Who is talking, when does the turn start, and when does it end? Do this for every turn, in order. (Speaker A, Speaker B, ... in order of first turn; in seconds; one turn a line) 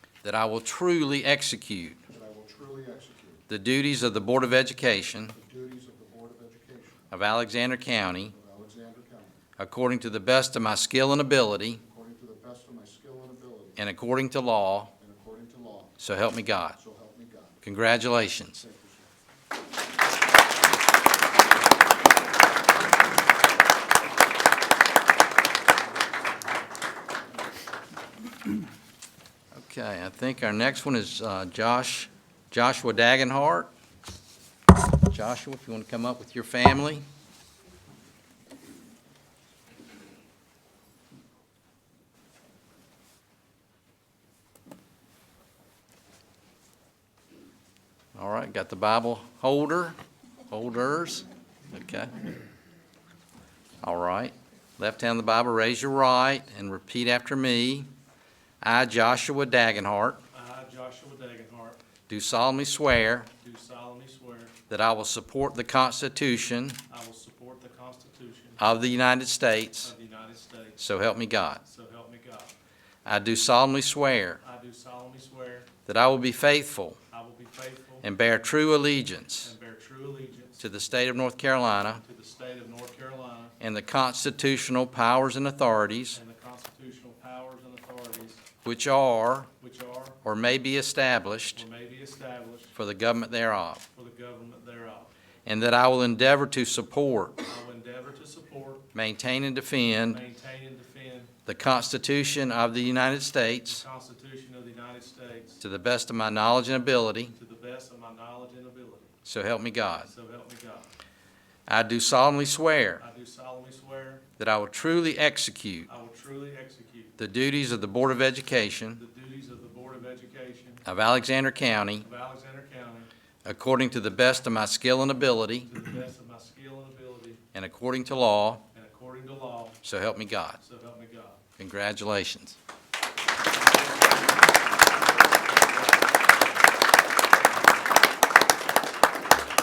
Speaker A: 0.2-2.0
Speaker B: 2.1-3.5
Speaker A: 3.5-5.3
Speaker B: 5.3-7.1
Speaker A: 7.1-8.3
Speaker B: 8.2-9.4
Speaker A: 9.6-11.8
Speaker B: 11.8-13.8
Speaker A: 13.8-14.9
Speaker B: 15.0-16.0
Speaker A: 16.0-16.8
Speaker B: 16.8-17.6
Speaker A: 17.6-18.6
Speaker B: 18.6-19.1
Speaker A: 29.5-33.7
Speaker A: 35.1-37.0
Speaker A: 48.2-50.0
Speaker A: 50.5-52.1
Speaker A: 53.8-57.9
Speaker A: 58.6-60.2
Speaker C: 60.3-61.8
Speaker A: 62.1-63.3
Speaker C: 63.4-64.5
Speaker A: 64.7-66.8
Speaker C: 66.9-68.6
Speaker A: 68.6-69.9
Speaker C: 69.8-70.8
Speaker A: 70.8-71.6
Speaker C: 71.6-72.5
Speaker A: 73.1-74.4
Speaker C: 74.4-75.7
Speaker A: 75.9-77.0
Speaker C: 77.1-78.0
Speaker A: 78.0-79.5
Speaker C: 79.4-80.7
Speaker A: 80.6-82.0
Speaker C: 82.0-83.5
Speaker A: 83.6-86.2
Speaker C: 86.1-88.4
Speaker A: 88.6-89.5
Speaker C: 89.6-90.2
Speaker A: 90.2-91.7
Speaker C: 91.6-92.7
Speaker A: 92.8-93.8
Speaker C: 93.9-95.1
Speaker A: 95.5-97.4
Speaker C: 97.5-98.8
Speaker A: 98.9-100.2
Speaker C: 100.1-101.3
Speaker A: 101.5-103.8
Speaker C: 103.7-105.6
Speaker A: 105.6-107.3
Speaker C: 107.3-109.1
Speaker A: 109.2-110.1
Speaker C: 110.1-110.9
Speaker A: 111.7-113.0
Speaker C: 113.0-114.2
Speaker A: 114.4-115.9
Speaker C: 115.9-117.2
Speaker A: 117.2-119.0
Speaker C: 119.0-120.8
Speaker A: 120.8-122.1
Speaker C: 122.0-123.1
Speaker A: 123.5-125.7
Speaker C: 125.7-127.4
Speaker A: 127.5-128.6
Speaker C: 128.7-129.8
Speaker A: 129.8-130.6
Speaker C: 130.6-131.4
Speaker A: 131.6-132.6
Speaker C: 133.6-134.1
Speaker C: 135.4-136.2